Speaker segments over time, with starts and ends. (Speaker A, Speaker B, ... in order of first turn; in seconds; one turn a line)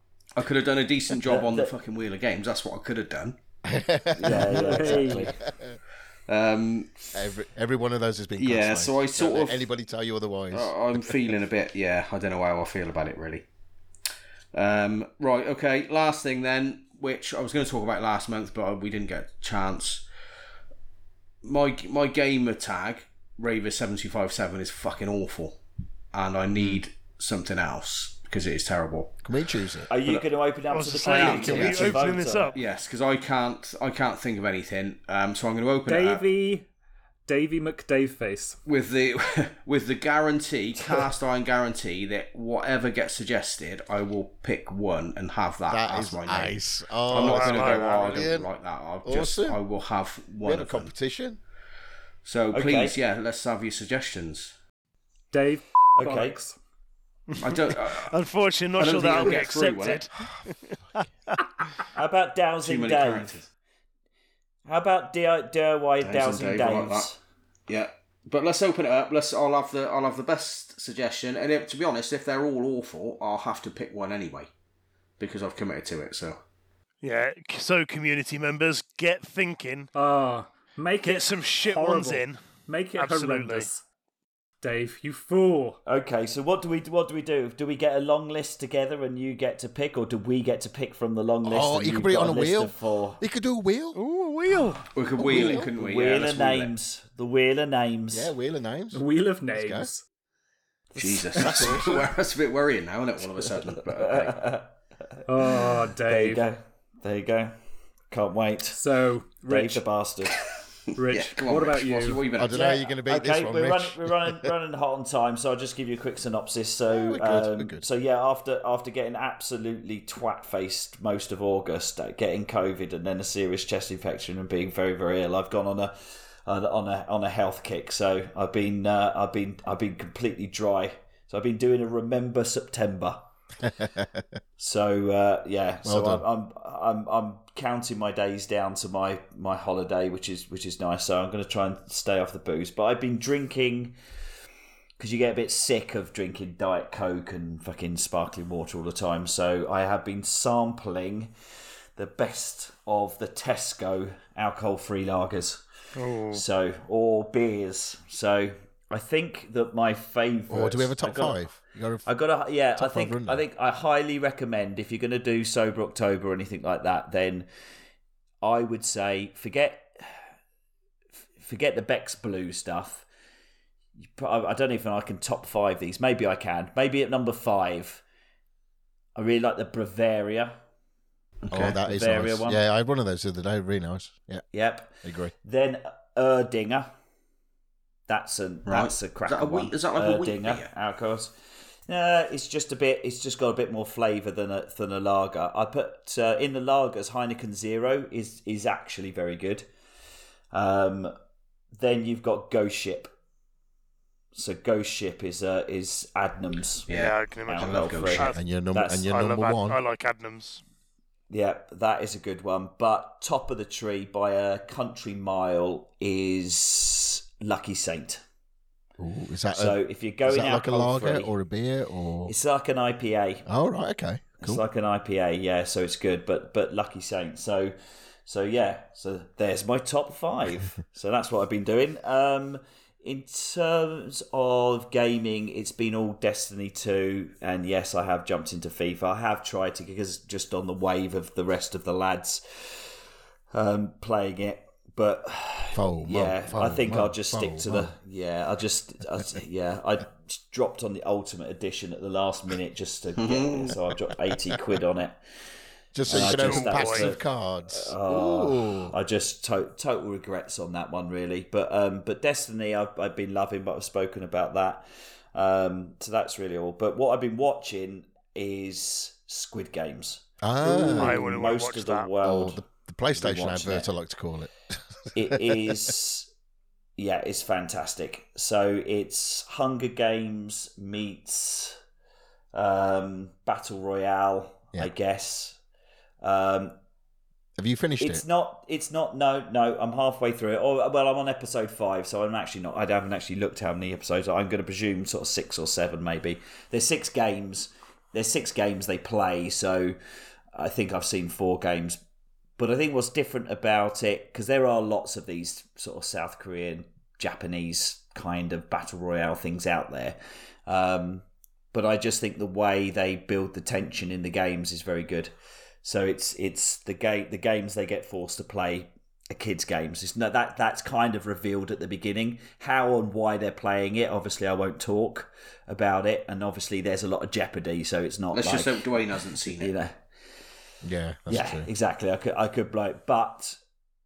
Speaker A: 0.3-3.4
Speaker B: 1.2-1.7
Speaker C: 3.6-5.8
Speaker B: 4.2-5.4
Speaker D: 4.2-5.3
Speaker A: 6.3-7.1
Speaker C: 7.1-11.2
Speaker A: 8.4-9.6
Speaker A: 10.5-13.4
Speaker A: 14.5-20.1
Speaker A: 21.4-25.6
Speaker A: 26.1-29.2
Speaker C: 29.2-29.9
Speaker B: 29.9-32.6
Speaker A: 30.0-30.2
Speaker E: 30.7-32.6
Speaker A: 31.0-36.2
Speaker C: 31.5-31.9
Speaker D: 35.9-36.6
Speaker D: 37.3-38.6
Speaker A: 38.6-50.9
Speaker C: 45.7-48.5
Speaker E: 47.1-48.3
Speaker C: 49.0-49.6
Speaker C: 50.4-51.4
Speaker A: 52.2-54.5
Speaker B: 52.5-53.0
Speaker D: 55.3-56.6
Speaker B: 56.0-56.3
Speaker E: 57.3-60.8
Speaker A: 57.4-58.1
Speaker A: 58.8-60.0
Speaker B: 61.9-63.4
Speaker A: 62.6-63.5
Speaker B: 64.7-67.2
Speaker A: 66.0-67.1
Speaker A: 67.7-74.5
Speaker A: 75.2-76.4
Speaker E: 77.0-79.9
Speaker D: 79.9-83.8
Speaker E: 81.0-82.4
Speaker E: 83.0-83.7
Speaker D: 84.6-85.8
Speaker B: 85.8-93.2
Speaker C: 91.4-94.0
Speaker E: 93.9-94.9
Speaker A: 94.9-96.7
Speaker C: 95.2-95.7
Speaker B: 95.6-98.3
Speaker C: 98.1-99.9
Speaker D: 98.9-100.0
Speaker B: 100.9-101.7
Speaker A: 101.0-104.5
Speaker C: 101.4-102.0
Speaker B: 104.0-107.6
Speaker D: 105.3-106.4
Speaker B: 108.1-108.8
Speaker D: 108.7-109.8
Speaker B: 109.5-110.4
Speaker D: 111.0-112.2
Speaker A: 111.0-112.5
Speaker C: 112.4-114.5
Speaker B: 112.5-133.2
Speaker C: 116.9-117.8
Speaker C: 133.8-134.2
Speaker B: 134.6-144.0
Speaker C: 135.8-136.2
Speaker B: 145.0-151.3
Speaker B: 151.9-155.6
Speaker E: 155.9-156.4
Speaker B: 156.3-161.4
Speaker C: 160.5-162.1
Speaker B: 162.0-167.5
Speaker C: 162.8-163.4
Speaker B: 168.4-170.2
Speaker B: 171.4-173.1
Speaker B: 174.0-178.0
Speaker B: 179.1-180.6
Speaker A: 181.4-181.8
Speaker C: 181.5-184.4
Speaker B: 181.8-182.6
Speaker B: 184.5-186.9
Speaker C: 185.0-185.3
Speaker B: 188.1-191.3
Speaker A: 188.7-190.7
Speaker B: 191.9-199.7
Speaker B: 200.5-201.1
Speaker B: 201.7-203.1
Speaker B: 204.3-209.1
Speaker A: 206.9-208.3
Speaker E: 206.9-208.4
Speaker C: 208.2-209.8
Speaker E: 209.0-210.6
Speaker B: 211.3-218.2
Speaker C: 219.0-222.3
Speaker B: 219.5-221.3
Speaker B: 222.2-223.5
Speaker C: 223.5-224.6
Speaker B: 224.4-242.9
Speaker B: 243.5-255.2
Speaker C: 245.7-247.9
Speaker A: 253.2-253.8
Speaker C: 255.9-258.9
Speaker B: 256.1-272.6
Speaker E: 256.1-257.1
Speaker C: 270.4-271.3
Speaker E: 270.9-272.1
Speaker C: 272.2-274.5
Speaker B: 273.1-273.9
Speaker B: 275.1-276.3
Speaker C: 275.2-275.7
Speaker B: 277.0-281.8
Speaker B: 282.5-285.6
Speaker B: 286.2-286.8
Speaker C: 287.6-288.2
Speaker B: 288.0-300.0
Speaker B: 300.5-302.0
Speaker B: 302.6-330.0
Speaker A: 328.3-329.7
Speaker C: 330.8-331.7
Speaker B: 331.3-333.6